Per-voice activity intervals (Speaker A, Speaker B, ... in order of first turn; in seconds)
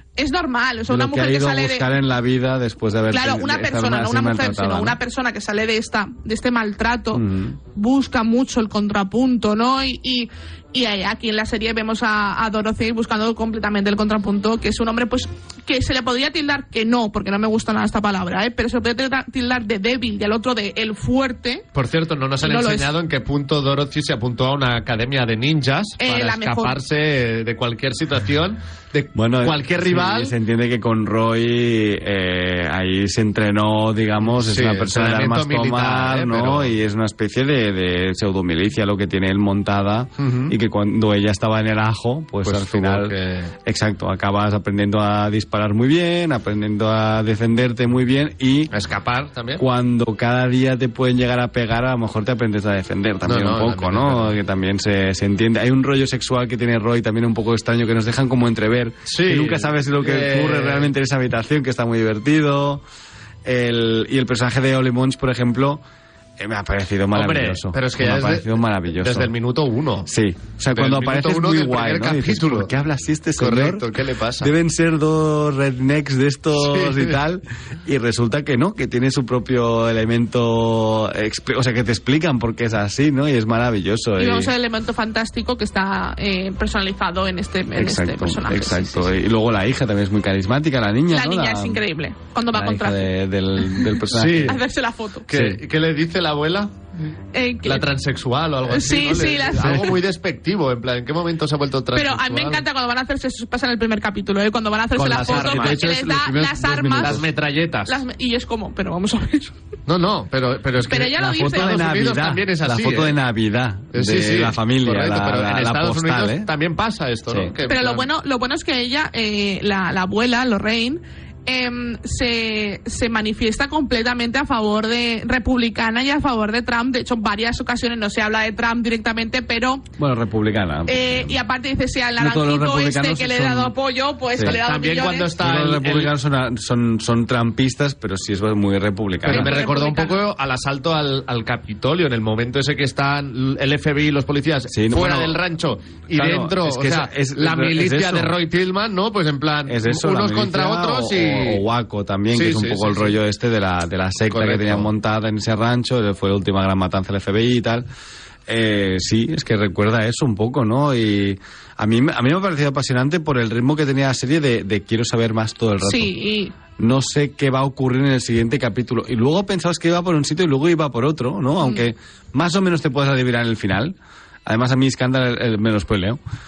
Speaker A: 0.2-1.9, 3.1-21.6, 22.4-22.9, 26.0-26.8, 84.2-89.1, 91.1-93.1, 94.4-95.3, 97.3-97.9, 98.7-100.0, 101.9-107.2, 107.8-109.5, 110.9-111.8, 117.7-129.8, 130.9-135.3, 139.2-140.2, 165.8-166.5
Speaker B: 0.9-5.0, 7.1-7.6, 29.1-48.7, 49.6-62.8, 63.4-65.8, 66.4-69.3, 70.0-73.9, 74.4-84.5, 87.8-91.8, 92.5-94.6, 95.3-95.6, 99.6-99.9, 105.2-107.2, 111.1-116.5, 130.0-131.3, 132.2-133.7, 134.3-134.6, 135.4-139.5, 144.7-145.4, 146.1-148.3, 149.7-157.8, 158.5-166.1, 166.8-176.2
Speaker C: 21.7-30.3, 34.3-36.7, 40.2-40.5, 42.4-43.5, 48.7-49.6, 53.2-54.3, 59.1-60.9, 67.1-70.1, 70.7-72.7, 73.4-74.5, 76.6-77.2, 94.1-94.6, 95.3-96.8, 97.6-102.6, 105.0-108.0, 109.9-113.2, 113.9-118.1, 134.4-136.1, 139.2-151.6, 152.3-153.2, 154.3-154.9